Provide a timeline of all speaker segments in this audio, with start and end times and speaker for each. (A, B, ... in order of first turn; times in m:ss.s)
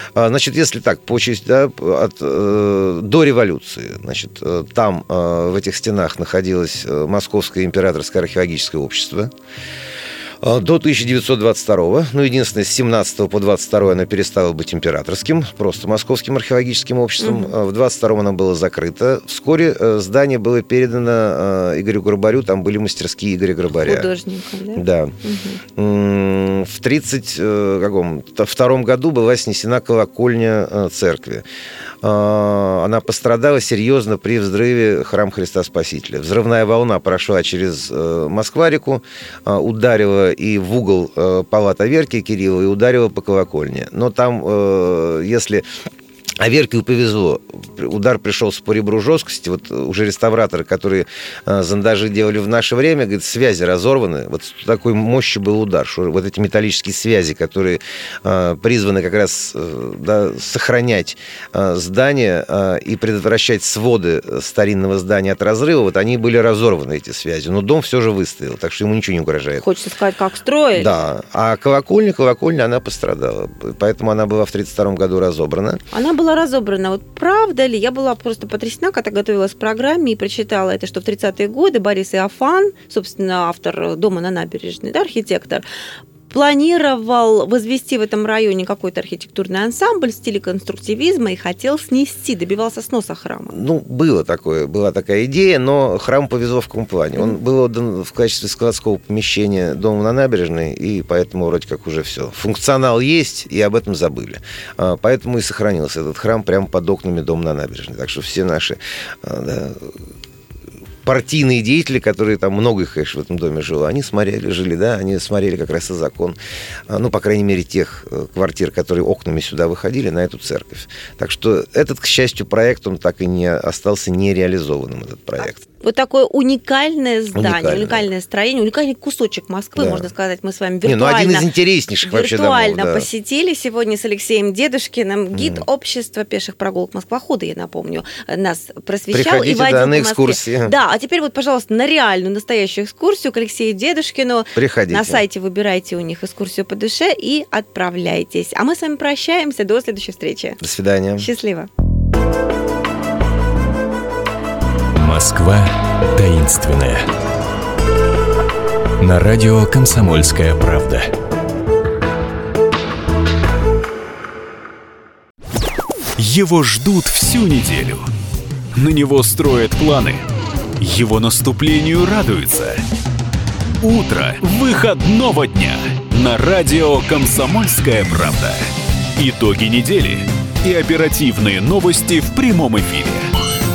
0:00.2-0:09.3 A
0:10.4-0:24.1 A
0:17.2-0:17.5 B
0:23.8-0:25.6 B
0:24.8-0:25.1 A
0:25.8-0:31.4 A
0:32.0-0:45.6 A
0:46.4-1:09.6 A
1:09.6-1:11.0 B
1:10.8-1:15.8 A
1:15.9-1:25.6 B
1:26.3-1:33.5 B
1:33.5-1:50.0 A
1:51.0-1:56.4 A
1:56.9-2:05.6 A
2:05.6-2:11.5 B
2:07.3-2:08.1 A
2:09.8-2:10.1 A
2:10.8-2:13.1 A
2:12.0-2:30.6 B
2:15.3-2:15.6 A
2:19.1-2:20.7 A
2:24.5-2:25.2 A
2:30.6-2:31.3 A
2:31.2-2:31.7 B
2:35.0-2:37.1 C
2:39.0-2:41.1 C
2:46.2-2:48.1 D
2:48.8-2:50.2 D
2:50.8-2:52.8 D
2:53.8-2:58.6 D
2:59.2-3:03.3 D